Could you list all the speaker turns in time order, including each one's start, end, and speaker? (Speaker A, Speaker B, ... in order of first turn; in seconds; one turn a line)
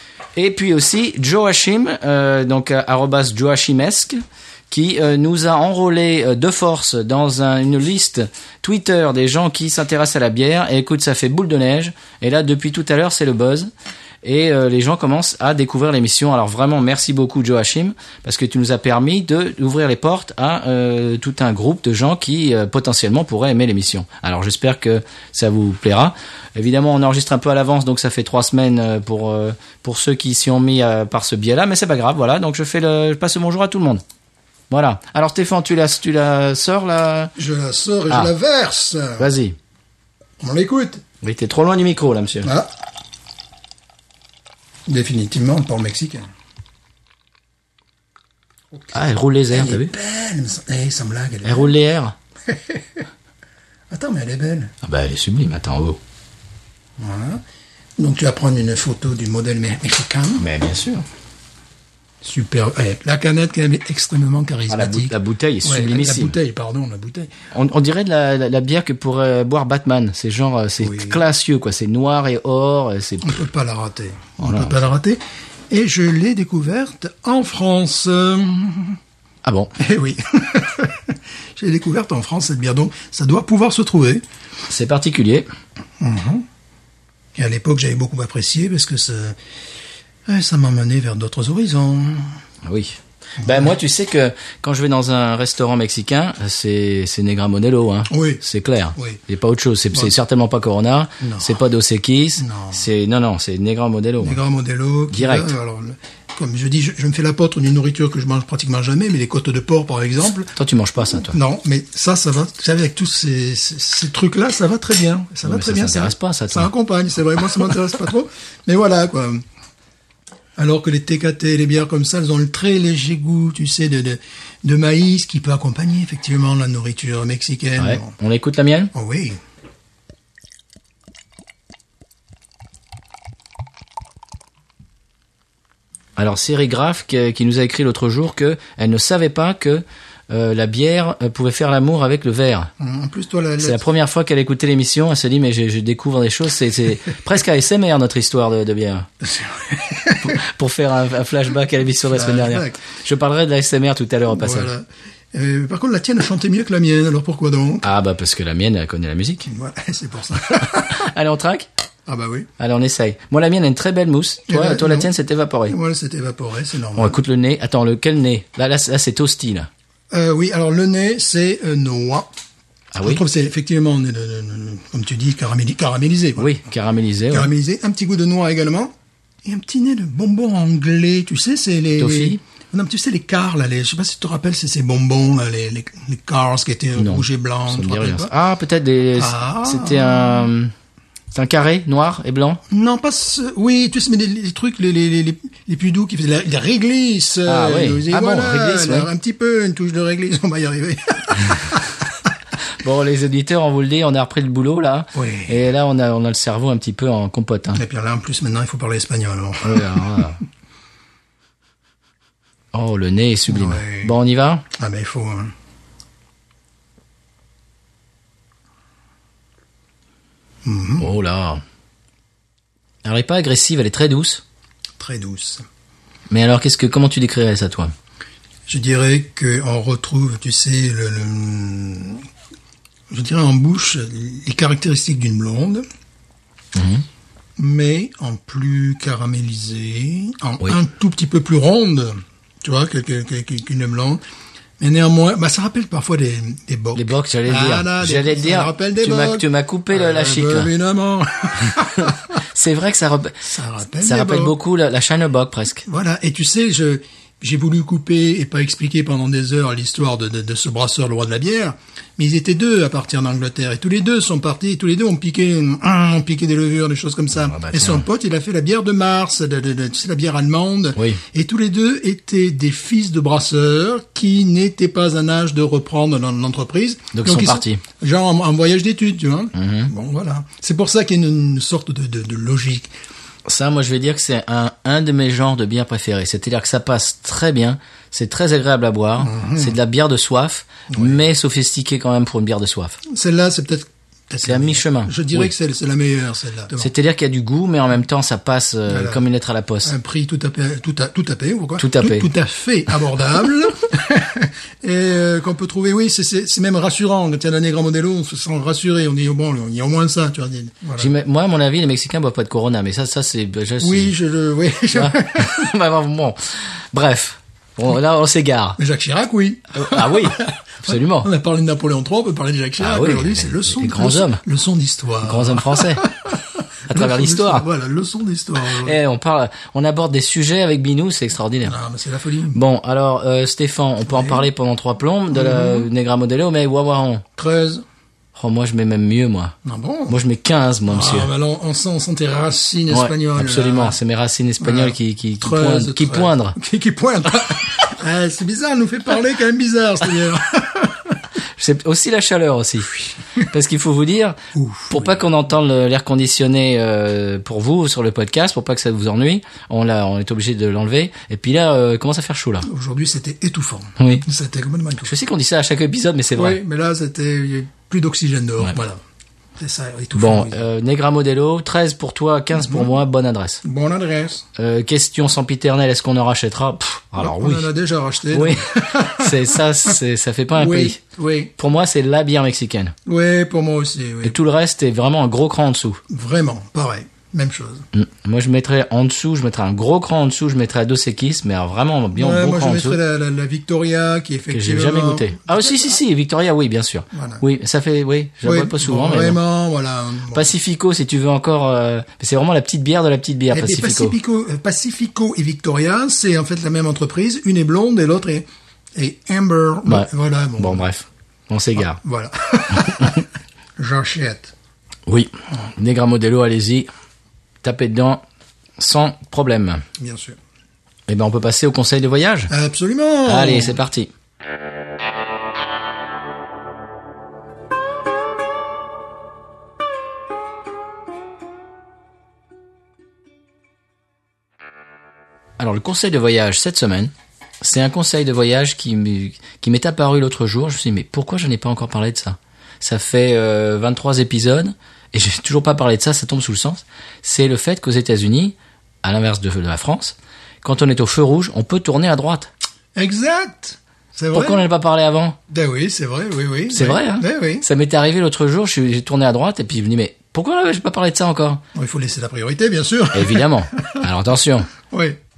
Speaker A: 0.4-4.2
Speaker A: 4.7-13.7
Speaker A: 14.2-34.0
Speaker A: 34.7-37.3
Speaker B: 37.4-39.2
Speaker A: 39.2-39.6
Speaker B: 40.4-41.0
Speaker A: 41.2-42.5
Speaker B: 42.4-42.7
Speaker B: 44.9-46.3
Speaker A: 48.9-49.9
Speaker B: 49.5-51.7
Speaker A: 51.4-52.1
Speaker B: 52.5-53.0
Speaker B: 53.9-54.7
Speaker A: 54.8-56.0
Speaker B: 57.0-57.4
Speaker B: 58.0-60.4
Speaker A: 60.4-61.0
Speaker B: 62.2-67.3
Speaker A: 64.7-66.4
Speaker A: 67.5-73.4
Speaker B: 70.8-71.2
Speaker B: 73.2-79.0
Speaker A: 74.4-74.8
Speaker A: 79.4-79.7
Speaker B: 79.8-84.2
Speaker A: 84.7-85.5
Speaker B: 86.0-86.5
Speaker B: 87.4-89.4
Speaker B: 90.2-92.3
Speaker A: 92.6-104.4
Speaker B: 93.4-93.7
Speaker B: 98.1-98.4
Speaker B: 99.0-99.2
Speaker B: 101.2-101.6
Speaker B: 102.4-102.8
Speaker B: 104.2-110.5
Speaker A: 105.1-105.5
Speaker A: 110.6-111.4
Speaker B: 111.2-119.4
Speaker A: 115.5-116.7
Speaker B: 120.6-128.1
Speaker A: 127.8-128.9
Speaker B: 128.9-129.4
Speaker A: 136.2-142.7
Speaker B: 142.8-143.8
Speaker A: 143.6-149.1
Speaker B: 149.2-150.4
Speaker A: 150.2-154.7
Speaker B: 152.1-152.8
Speaker B: 154.3-157.9
Speaker A: 157.8-159.5
Speaker B: 159.5-161.1
Speaker A: 160.6-161.7
Speaker B: 162.1-162.5
Speaker A: 162.6-165.8
Speaker B: 164.5-165.1
Speaker B: 165.7-167.2
Speaker A: 167.0-169.7
Speaker B: 170.1-172.3
Speaker A: 172.9-173.2
Speaker B: 173.0-176.6
Speaker A: 176.4-177.5
Speaker B: 177.3-178.9
Speaker B: 179.4-188.3
Speaker A: 182.0-182.4
Speaker A: 187.0-190.7
Speaker B: 189.2-190.5
Speaker A: 191.3-192.6
Speaker B: 192.7-202.3
Speaker A: 197.4-199.1
Speaker A: 202.8-207.8
Speaker B: 205.1-205.6
Speaker B: 207.8-210.2
Speaker A: 209.6-210.4
Speaker A: 212.7-214.6
Speaker B: 213.5-214.1
Speaker B: 214.7-215.5
Speaker B: 220.6-221.1
Speaker A: 221.0-221.6
Speaker A: 223.1-224.4
Speaker B: 225.0-225.6
Speaker A: 226.3-227.9
Speaker B: 228.7-232.2
Speaker B: 233.1-235.8
Speaker A: 236.8-237.0
Speaker B: 237.6-244.2
Speaker B: 244.8-252.3
Speaker A: 246.9-250.7
Speaker A: 251.7-253.4
Speaker B: 253.5-254.6
Speaker A: 254.0-255.8
Speaker B: 255.9-282.9
Speaker A: 267.4-268.1
Speaker A: 271.0-271.2
Speaker A: 277.1-277.8
Speaker A: 279.6-279.9
Speaker A: 283.5-293.0
Speaker B: 289.2-289.8
Speaker B: 290.9-291.2
Speaker B: 293.1-296.9
Speaker A: 294.4-295.5
Speaker A: 296.8-299.9
Speaker B: 298.9-299.2
Speaker B: 299.8-311.1
Speaker A: 301.8-302.3
Speaker A: 311.0-314.1
Speaker B: 313.8-315.7
Speaker A: 314.9-318.8
Speaker B: 318.8-329.0
Speaker A: 319.8-321.3
Speaker A: 322.8-324.4
Speaker A: 325.2-326.1
Speaker A: 326.9-327.6
Speaker A: 328.7-331.8
Speaker B: 331.6-332.6
Speaker A: 332.5-337.2
Speaker B: 334.1-334.5
Speaker B: 335.3-335.9
Speaker B: 337.4-337.8
Speaker A: 338.4-339.6
Speaker B: 339.6-340.2
Speaker A: 340.1-341.3
Speaker B: 340.9-344.0
Speaker A: 342.9-346.6
Speaker B: 344.6-351.2
Speaker A: 351.6-362.7
Speaker B: 354.5-355.2
Speaker B: 362.6-365.1
Speaker A: 364.0-364.2
Speaker A: 365.0-366.6
Speaker B: 366.3-369.0
Speaker B: 369.6-370.6
Speaker A: 370.1-373.6
Speaker B: 372.6-372.9
Speaker B: 373.6-374.5
Speaker A: 374.6-377.7
Speaker B: 377.2-379.6
Speaker A: 378.3-381.0
Speaker B: 380.6-381.5
Speaker A: 381.6-382.9
Speaker B: 383.1-384.4
Speaker A: 384.2-386.0
Speaker B: 386.1-387.9
Speaker A: 387.9-393.0
Speaker B: 392.1-396.0
Speaker A: 394.5-399.4
Speaker B: 397.1-397.4
Speaker B: 398.4-400.5
Speaker A: 400.3-404.1
Speaker B: 403.5-410.8
Speaker A: 409.9-412.0
Speaker B: 412.0-413.2
Speaker B: 413.8-414.5
Speaker A: 415.1-416.9
Speaker A: 417.6-418.2
Speaker A: 418.8-419.8
Speaker B: 420.0-420.4
Speaker A: 421.1-422.5
Speaker B: 422.5-423.8
Speaker A: 423.3-424.1
Speaker A: 435.6-452.5
Speaker B: 453.0-454.6
Speaker A: 454.3-455.4
Speaker B: 455.5-457.6
Speaker A: 456.7-461.6
Speaker B: 461.7-464.0
Speaker A: 463.1-464.7
Speaker B: 464.8-465.2